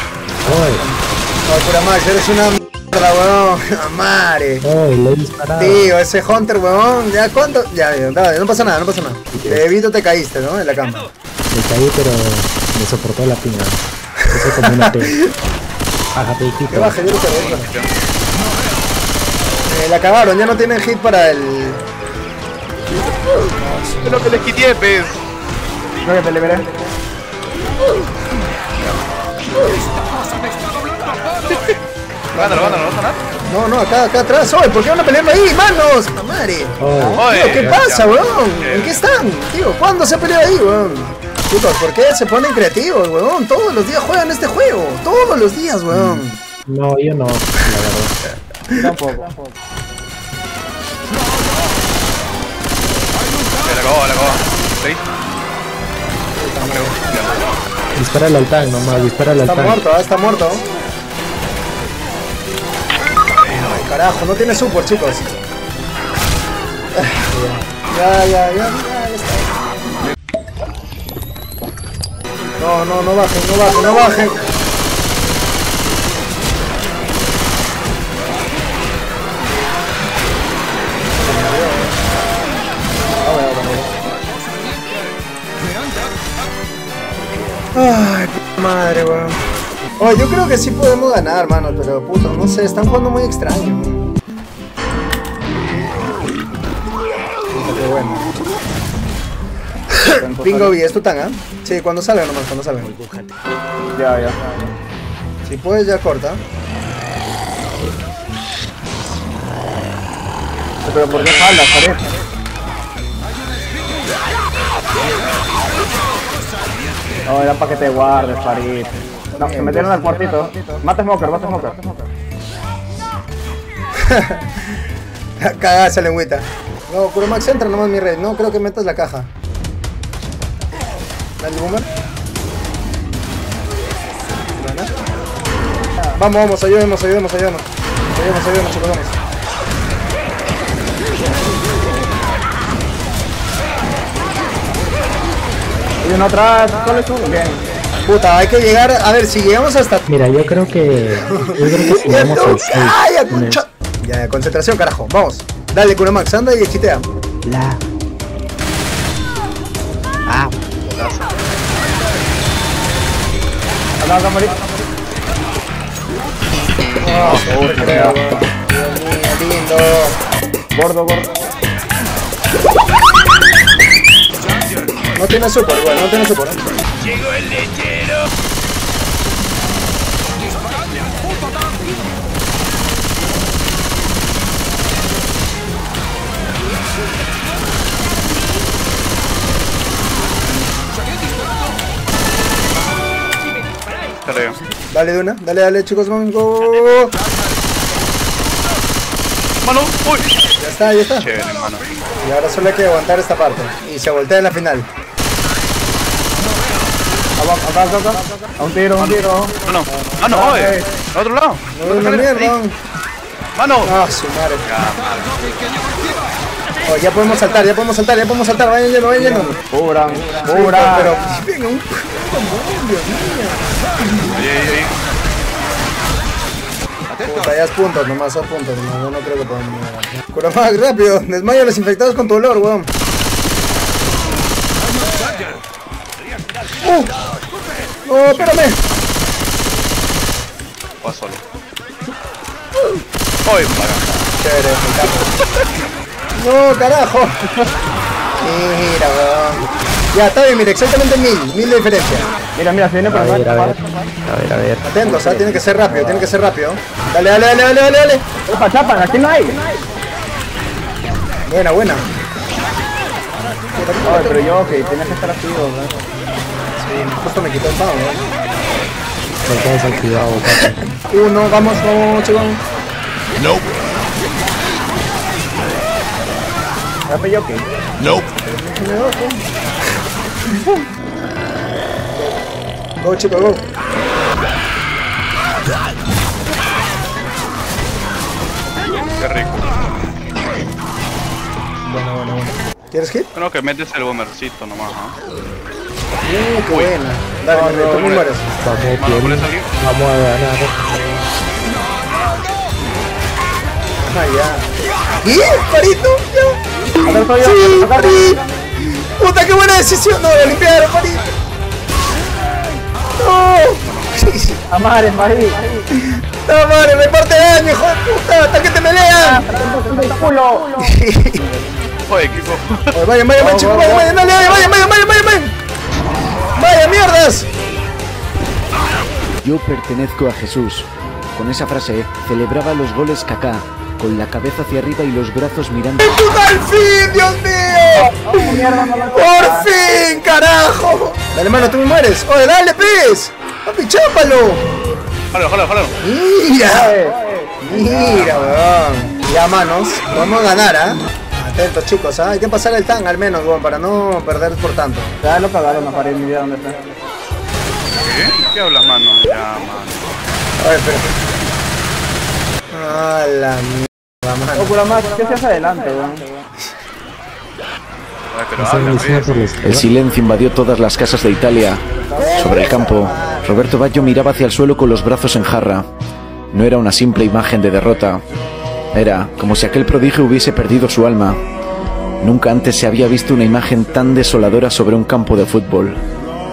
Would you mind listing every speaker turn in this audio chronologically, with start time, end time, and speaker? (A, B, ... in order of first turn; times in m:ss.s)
0:00.4-0:00.8 A
0:00.8-0:04.6 B
0:04.6-0:06.0 A
0:05.6-0:11.1 B
0:09.3-0:09.7 A
0:11.5-0:15.2 A
0:14.3-0:15.3 B
0:16.1-0:17.0 A
0:16.7-0:17.7 B
0:17.1-0:17.9 C
0:19.7-0:21.8 B
0:23.6-0:24.4 B
0:24.0-0:25.2 C
0:26.0-0:26.8 D
0:31.4-0:31.8 C
0:32.3-0:46.4 B
0:32.3-0:33.2 C
0:36.8-0:37.8 A
0:37.2-0:39.0 C
0:45.9-0:48.1 A
0:48.7-0:49.5 D
0:53.6-0:55.0 C
0:56.3-0:57.0 B
0:56.7-0:57.5 C
0:58.0-0:59.8 A
0:59.4-1:00.6 B
1:03.5-1:05.2 B
1:07.0-1:09.5 B
1:12.6-1:14.4 B
1:21.2-1:21.9 B
1:23.2-1:23.9 D
1:27.7-1:29.4 B
1:30.0-1:34.1 B
1:37.5-1:38.3 B
1:39.9-1:42.9 B
1:40.2-1:40.8 D
1:43.9-1:44.4 D
1:45.4-1:46.4 B
1:50.8-1:52.0 D
1:57.2-2:01.9 D
1:59.3-2:00.0 B
2:04.0-2:04.6 B
2:05.4-2:09.3 B
2:11.4-2:11.9 B
2:14.6-2:14.9 B
2:16.1-2:19.2 B
2:26.0-2:27.6 D
2:28.0-2:30.1 B
2:30.1-2:33.6 A
2:31.3-2:37.0 B
2:37.4-2:37.8 A
2:40.3-2:40.5 A
2:40.9-2:41.3 C
2:44.0-2:44.6 D
2:47.0-2:50.1 B
2:47.0-2:48.0 C
2:47.4-2:48.2 D
2:50.7-2:51.4 D
2:55.2-2:56.6 B
3:14.2-3:14.6 C
3:14.9-3:17.1 B
3:19.6-3:20.3 C
3:20.6-3:21.3 B
3:21.1-3:21.8 C
3:22.2-3:24.8 B
3:27.4-3:30.9 D
3:29.0-3:32.6 C
3:31.7-3:32.8 B
3:33.6-3:33.9 C
3:33.8-3:34.6 B
3:34.6-3:35.3 C
3:36.9-3:39.6 B
3:39.2-3:41.2 D
3:40.4-3:44.4 B
3:44.3-3:44.9 C
3:47.2-3:52.9 B
3:56.8-3:57.1 B
3:58.0-3:58.8 B
3:58.3-3:58.6 C
4:01.0-4:01.4 C
4:03.4-4:04.1 C
4:04.4-4:05.3 B
4:06.3-4:07.4 B
4:08.4-4:12.3 B
4:12.5-4:14.1 D
4:13.0-4:15.0 A
4:14.8-4:18.2 B
4:18.5-4:19.6 D
4:21.4-4:22.1 B
4:23.7-4:24.7 B
4:24.0-4:26.1 D
4:26.8-4:28.2 B
4:29.4-4:30.8 A
4:30.6-4:32.6 B
4:37.1-4:37.7 D
4:38.7-4:39.4 B
4:42.1-4:42.4 B
4:43.0-4:43.6 B
4:49.2-4:49.7 C
4:51.8-4:53.3 B
4:53.3-4:55.2 C
4:56.2-4:58.4 B
4:57.5-4:58.1 D
4:57.9-4:59.7 C
4:58.6-5:00.7 A
5:00.8-5:01.2 B
5:04.0-5:04.7 B
5:05.2-5:11.2 B
5:07.0-5:08.4 D
5:13.2-5:14.6 B
5:13.8-5:14.2 C
5:14.7-5:15.8 D
5:15.9-5:19.5 B
5:19.2-5:21.7 D
5:20.8-5:21.4 B
5:22.1-5:22.9 C
5:22.9-5:25.5 B
5:23.4-5:24.5 D
5:26.5-5:27.5 B
5:29.4-5:36.2 E
5:36.0-5:44.6 B
5:38.2-5:39.7 D
5:45.3-5:46.0 C
5:46.0-5:47.0 B
5:46.7-5:48.3 D
5:47.6-5:55.1 B
5:48.0-5:48.5 C
5:55.2-5:56.8 D
5:58.0-6:00.0 C
6:00.6-6:01.1 B
6:02.7-6:04.8 B
6:04.6-6:06.3 D
6:08.3-6:09.6 C
6:08.6-6:09.9 A
6:09.6-6:11.8 E
6:11.9-6:13.0 D
6:12.2-6:14.1 B
6:12.3-6:15.8 E
6:16.5-6:18.2 E
6:18.9-6:21.4 E
6:22.2-6:26.0 E